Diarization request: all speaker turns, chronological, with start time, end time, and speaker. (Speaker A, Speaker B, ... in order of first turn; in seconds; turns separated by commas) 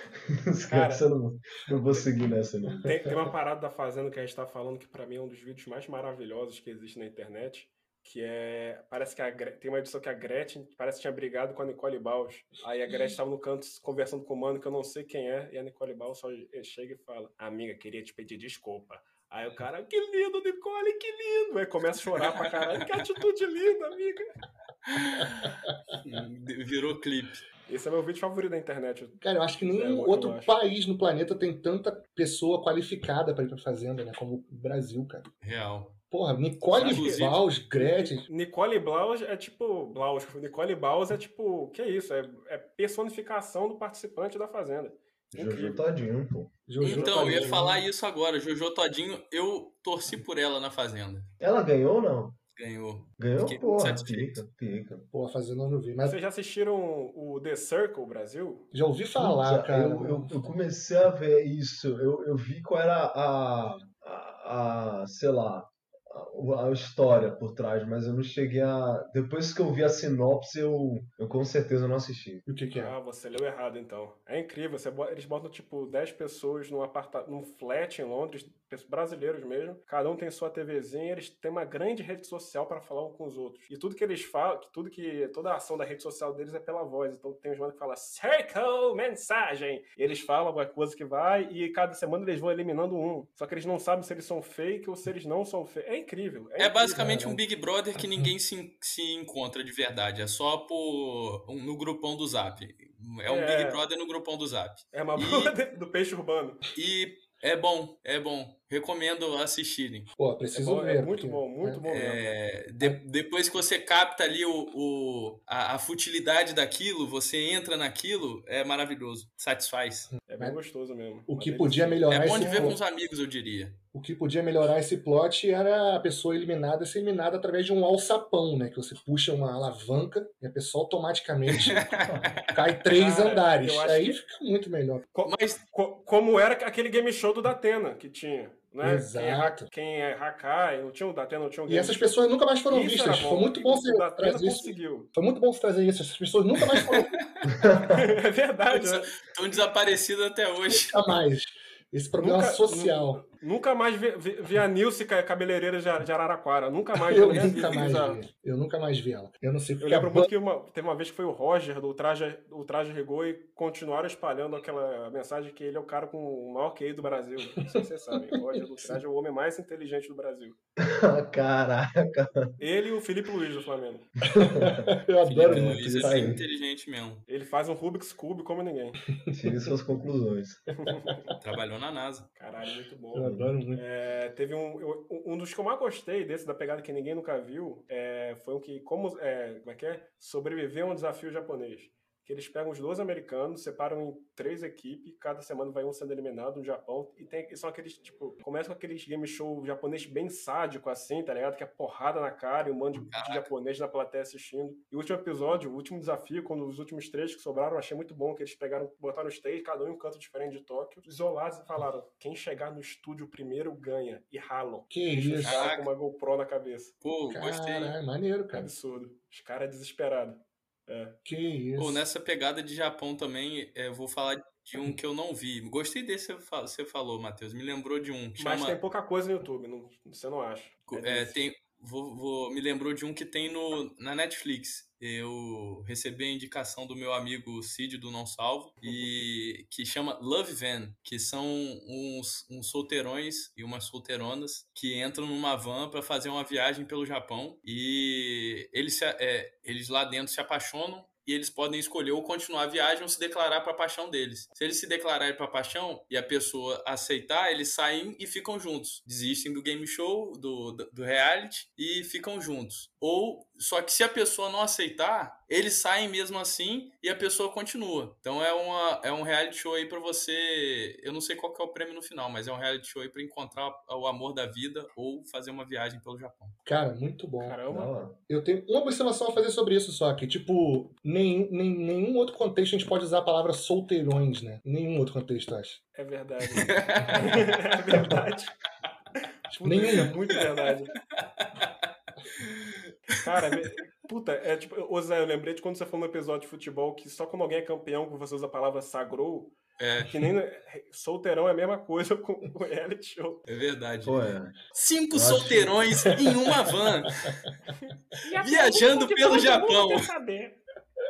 Speaker A: 0.3-3.1, Speaker B: 0.7-1.1, Speaker B: 2.8-24.3, Speaker C: 22.2-22.5, Speaker C: 24.9-27.4, Speaker B: 27.7-30.5, Speaker D: 29.2-35.3, Speaker C: 35.4-36.0, Speaker D: 36.1-38.3, Speaker C: 36.7-37.5, Speaker B: 36.8-45.8, Speaker A: 45.3-46.5, Speaker D: 46.7-47.8, Speaker B: 46.8-47.7, Speaker C: 46.8-51.3, Speaker A: 51.4-52.4, Speaker C: 52.6-54.4, Speaker A: 53.2-55.1, Speaker D: 55.1-56.2, Speaker B: 56.0-58.7, Speaker D: 58.7-60.4, Speaker A: 59.2-72.5, Speaker D: 72.5-73.0, Speaker B: 72.7-97.1, Speaker C: 96.6-105.5, Speaker D: 97.0-97.4, Speaker D: 98.0-98.3, Speaker B: 103.2-103.8, Speaker B: 104.9-106.6, Speaker C: 106.7-110.1, Speaker D: 110.2-111.8, Speaker B: 110.5-112.3, Speaker C: 111.9-120.1, Speaker D: 120.1-120.6, Speaker B: 120.3-122.7, Speaker D: 121.3-122.8, Speaker C: 122.1-123.8, Speaker D: 123.9-131.9, Speaker C: 131.5-132.6, Speaker D: 132.5-135.1, Speaker B: 132.9-134.2, Speaker B: 135.2-142.0, Speaker C: 135.2-135.6, Speaker D: 138.8-139.7, Speaker D: 141.7-147.2, Speaker B: 142.7-145.1, Speaker C: 146.7-147.5, Speaker A: 147.5-148.0, Speaker B: 147.9-149.1, Speaker C: 148.7-151.0, Speaker D: 150.7-153.2, Speaker B: 152.2-158.2, Speaker D: 156.9-160.3, Speaker B: 159.8-170.6, Speaker A: 170.8-172.5, Speaker B: 172.6-174.1, Speaker A: 174.2-174.9, Speaker D: 174.4-176.2, Speaker C: 175.2-177.2, Speaker A: 175.4-176.4, Speaker B: 177.3-179.0, Speaker D: 179.2-179.6, Speaker A: 179.3-180.7, Speaker B: 180.8-181.3, Speaker C: 181.4-182.3, Speaker B: 182.4-216.9, Speaker D: 183.1-183.8, Speaker C: 202.9-203.5, Speaker D: 214.9-215.7, Speaker C: 215.4-215.9, Speaker C: 217.0-217.9, Speaker D: 217.3-218.7, Speaker B: 218.5-221.2, Speaker D: 221.2-222.0, Speaker C: 221.8-228.8, Speaker B: 228.4-231.4, Speaker C: 230.9-276.6, Speaker D: 276.6-277.6, Speaker B: 277.4-277.9, Speaker A: 277.7-278.2, Speaker D: 278.3-285.8, Speaker B: 285.9-288.6, Speaker C: 286.6-287.4, Speaker D: 289.5-290.2, Speaker B: 289.5-291.0, Speaker C: 291.2-291.7, Speaker B: 293.2-303.4, Speaker C: 299.8-300.1, Speaker C: 303.5-307.3, Speaker A: 304.1-304.6, Speaker A: 305.1-305.9, Speaker B: 307.7-310.6, Speaker C: 308.4-310.1